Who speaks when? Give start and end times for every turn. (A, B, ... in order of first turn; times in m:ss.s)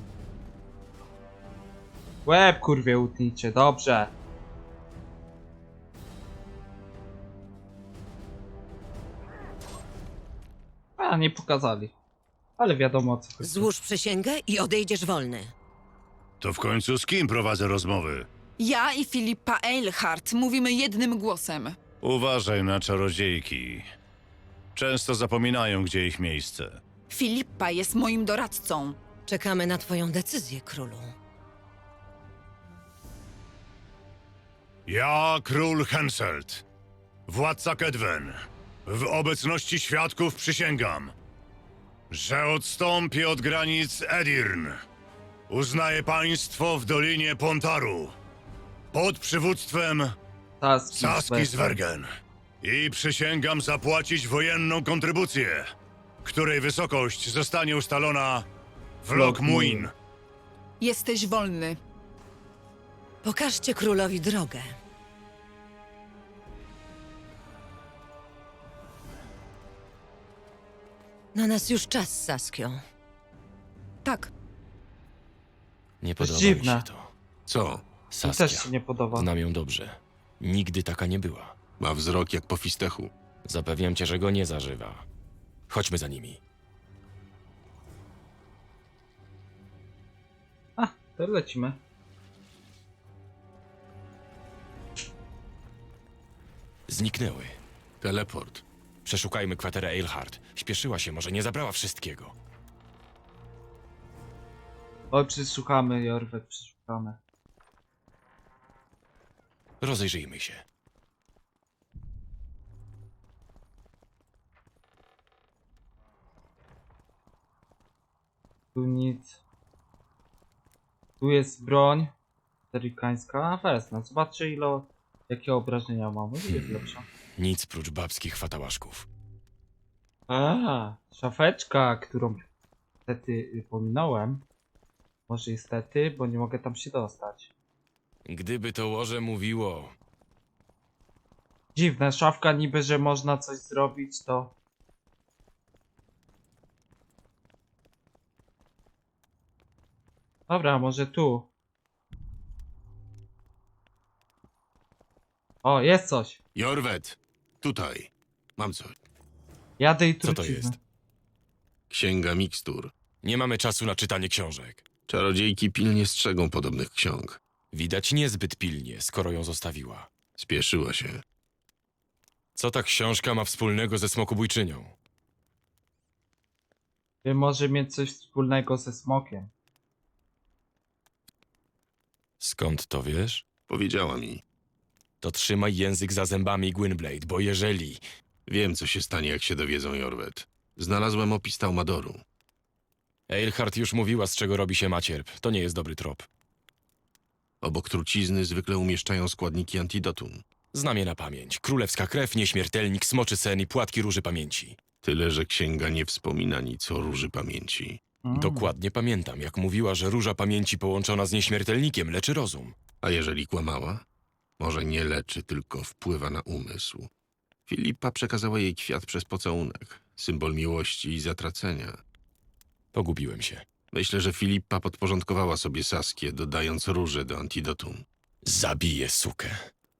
0:02.3-0:04.1 A
0:11.0-0:11.9 A
0:12.6-0:13.7 A
0:13.4-0:15.5 B
0:16.4-0:18.3 C
0:18.6-0:21.8 D
0:22.0-0:23.9 C
0:24.8-0:26.8 C
0:27.1-0:29.0 D
0:29.3-0:31.1 B
0:34.9-0:36.6 C
0:37.3-0:41.1 C
0:42.1-0:44.8 C
0:45.5-0:48.2 C
0:48.9-0:50.2 C
0:50.6-0:51.6 A
0:50.9-0:52.1 C
0:52.6-0:55.7 C
0:56.2-0:58.5 C
0:59.0-0:59.9 C
0:59.1-0:59.9 A
1:00.8-1:01.8 D
1:03.2-1:04.7 B
1:11.4-1:12.8 B
1:14.0-1:14.3 D
1:16.0-1:17.1 E
1:16.2-1:16.9 A
1:17.5-1:17.8 F
1:18.1-1:21.6 E
1:18.2-1:19.3 A
1:21.8-1:23.1 F
1:23.4-1:25.0 E
1:25.7-1:26.4 E
1:30.8-1:31.8 A
1:36.9-1:37.6 E
1:38.0-1:38.6 F
1:39.0-1:42.3 E
1:45.1-1:47.2 A
1:49.8-1:50.6 E
1:58.7-1:59.4 A
2:01.2-2:02.1 A
2:02.7-2:07.0 A
2:06.5-2:06.8 E
2:07.4-2:09.1 E
2:10.3-2:12.5 A
2:13.1-2:14.4 A
2:15.3-2:17.5 A
2:18.3-2:20.0 E
2:21.8-2:24.5 A
2:30.5-2:31.5 A
2:35.6-2:36.4 A
2:36.6-2:39.0 F
2:39.8-2:40.8 A
2:40.2-2:40.8 E
2:41.9-2:42.9 F
2:43.2-2:44.8 E
2:45.1-2:47.4 F
2:47.7-2:50.1 E
2:50.4-2:51.2 F
2:52.6-2:54.9 E
2:57.2-2:59.5 A
3:02.4-3:03.4 E
3:03.7-3:04.4 F
3:05.2-3:08.0 E
3:08.5-3:12.2 F
3:13.3-3:16.3 E
3:17.6-3:20.4 F
3:20.7-3:24.8 E
3:25.0-3:28.0 F
3:28.2-3:28.7 A
3:28.4-3:32.8 E
3:33.0-3:34.0 F
3:34.6-3:37.1 F
3:37.7-3:42.0 F
3:42.9-3:43.7 E
3:43.9-3:48.0 F
3:48.4-3:49.6 E